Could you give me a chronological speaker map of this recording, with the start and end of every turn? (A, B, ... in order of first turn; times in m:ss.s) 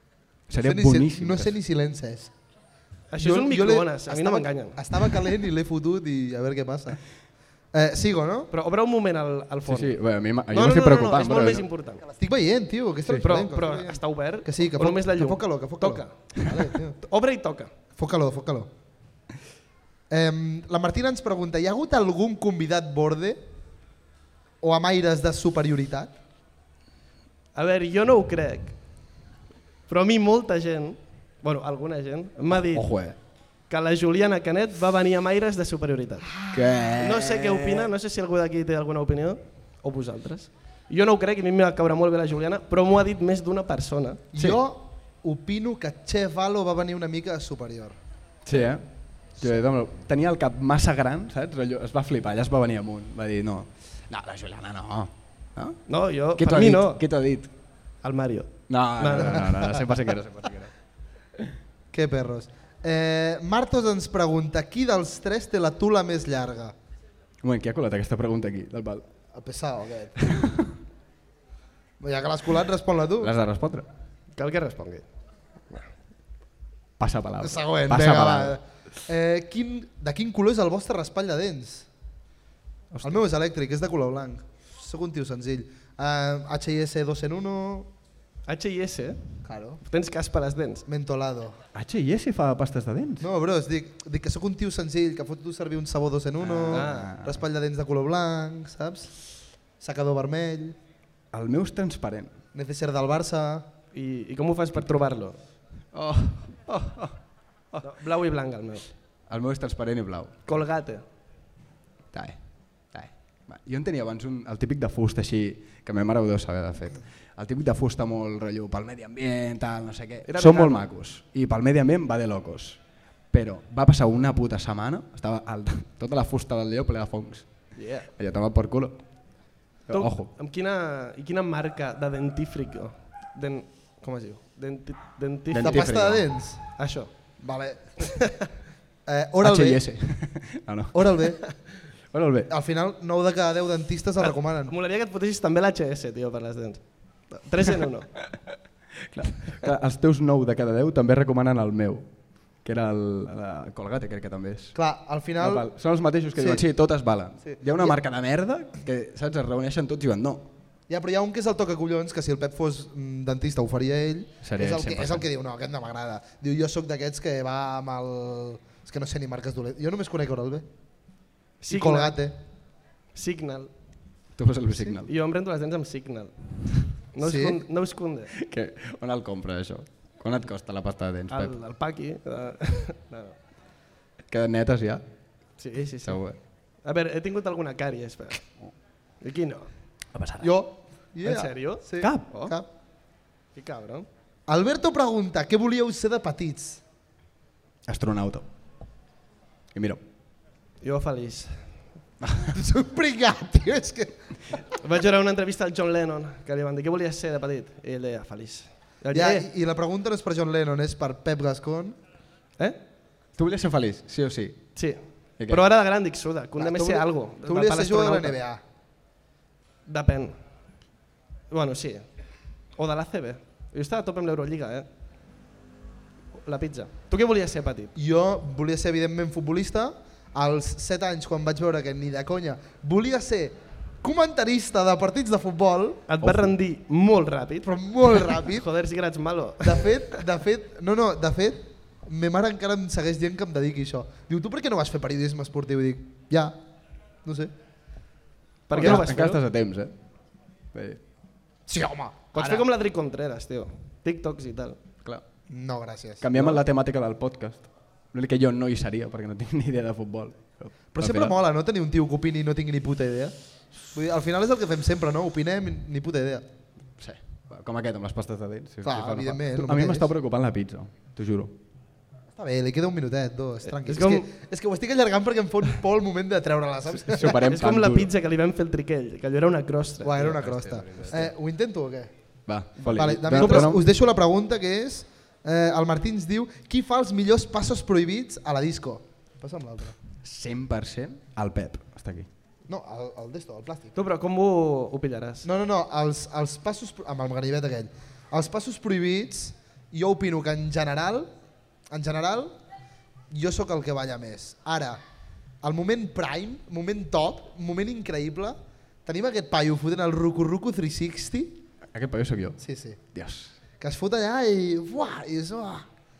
0:00.5-0:01.6 A
0:00.5-0:02.3 B
0:03.1-0:05.0 C
0:03.2-0:07.0 B
0:07.7-0:08.5 B
0:08.5-0:10.0 C
0:09.6-0:11.6 A
0:10.5-0:12.0 C
0:12.1-0:17.0 B
0:13.2-0:16.3 C
0:17.0-0:17.7 C
0:18.0-0:18.7 B
0:20.1-0:23.4 B
0:24.6-0:26.1 B
0:27.5-0:28.8 C
0:29.9-0:32.9 C
0:32.5-0:33.2 A
0:33.7-0:36.4 C
0:36.5-0:37.9 A
0:37.0-0:44.2 C
0:44.3-0:48.0 B
0:48.5-0:55.8 A
0:55.9-0:57.0 C
0:56.4-0:57.5 A
0:58.0-0:59.9 C
0:58.7-1:00.7 A
1:01.9-1:06.8 B
1:07.4-1:09.0 A
1:09.3-1:10.3 B
1:10.2-1:10.8 A
1:12.0-1:13.3 B
1:13.2-1:13.9 A
1:14.4-1:15.0 C
1:17.0-1:18.6 A
1:17.4-1:21.9 B
1:22.9-1:23.2 A
1:23.0-1:27.9 B
1:28.5-1:29.2 C
1:29.4-1:29.8 B
1:29.8-1:30.8 C
1:30.9-1:31.6 B
1:31.8-1:33.3 A
1:33.2-1:39.2 B
1:36.4-1:37.4 A
1:36.7-1:37.1 C
1:39.8-1:40.8 B
1:41.3-1:42.3 A
1:42.5-1:43.7 B
1:43.9-1:45.4 C
1:45.9-1:47.2 A
1:47.8-1:48.9 C
1:49.3-1:50.3 A
1:50.5-1:51.0 C
1:52.1-1:52.4 A
1:52.9-2:02.8 A
2:00.3-2:00.8 C
2:03.3-2:07.6 A
2:07.8-2:08.1 C
2:08.2-2:09.0 A
2:09.9-2:10.3 A
2:09.9-2:15.9 C
2:15.5-2:16.3 A
2:15.6-2:16.6 B
2:16.8-2:17.1 C
2:17.4-2:18.4 B
2:19.0-2:19.8 B
2:19.4-2:21.1 A
2:20.9-2:21.4 B
2:22.1-2:22.5 A
2:22.5-2:24.7 B
2:24.2-2:28.2 C
2:29.0-2:32.1 A
2:32.6-2:34.8 A
2:34.8-2:35.7 B
2:35.4-2:40.5 A
2:36.4-2:36.6 B
2:37.4-2:38.0 B
2:40.9-2:50.6 B
2:44.4-2:45.2 A
2:51.6-2:52.3 C
2:51.7-2:52.4 B
2:53.1-2:53.7 C
2:54.4-2:55.1 A
2:55.0-2:58.3 C
2:57.2-2:57.6 B
2:58.4-3:01.5 A
3:01.3-3:03.4 C
3:04.3-3:05.0 A
3:05.6-3:06.2 C
3:06.0-3:06.4 A
3:06.8-3:08.5 C
3:09.2-3:09.7 C
3:10.1-3:10.5 A
3:10.4-3:12.7 B
3:11.2-3:12.6 C
3:12.0-3:12.3 A
3:13.6-3:14.0 C
3:14.5-3:16.8 B
3:17.9-3:18.5 A
3:19.7-3:20.0 A
3:20.8-3:21.6 C
3:22.5-3:24.6 B
3:24.8-3:29.5 C
3:29.1-3:32.0 B
3:33.4-3:34.6 A
3:34.8-3:38.4 C
3:35.4-3:35.6 A
3:36.6-3:38.6 B
3:39.9-3:40.4 C
3:41.5-3:42.1 C
3:42.8-3:44.9 C
3:46.4-3:47.9 C
3:48.0-3:56.0 B
3:56.1-4:00.2 C
3:56.2-3:56.5 A
3:57.6-3:58.6 B
3:59.6-4:06.5 B
4:07.2-4:07.5 B
4:08.7-4:09.4 C
4:08.7-4:10.0 A
4:08.8-4:09.1 B
4:10.7-4:11.0 A
4:11.7-4:12.6 B
4:12.3-4:14.8 C
4:15.5-4:16.2 B
4:16.2-4:21.4 A
4:20.9-4:23.3 B
4:23.9-4:26.4 B
4:27.0-4:31.5 A
4:28.8-4:30.1 B
4:32.3-4:37.5 B
4:33.7-4:34.3 C
4:36.9-4:38.1 A
4:37.3-4:40.4 C
4:40.0-4:42.1 B
4:40.2-4:41.3 A
4:42.5-4:43.8 A
4:42.8-4:43.7 C
4:42.9-4:50.0 B
4:50.2-4:52.3 A
4:52.7-4:54.0 B
4:54.0-4:55.5 C
4:55.4-5:01.3 B
5:01.9-5:02.6 B
5:03.3-5:05.0 B
5:05.6-5:11.6 B
5:11.9-5:12.6 A
5:12.6-5:13.0 B
5:13.1-5:13.6 A
5:13.8-5:15.9 B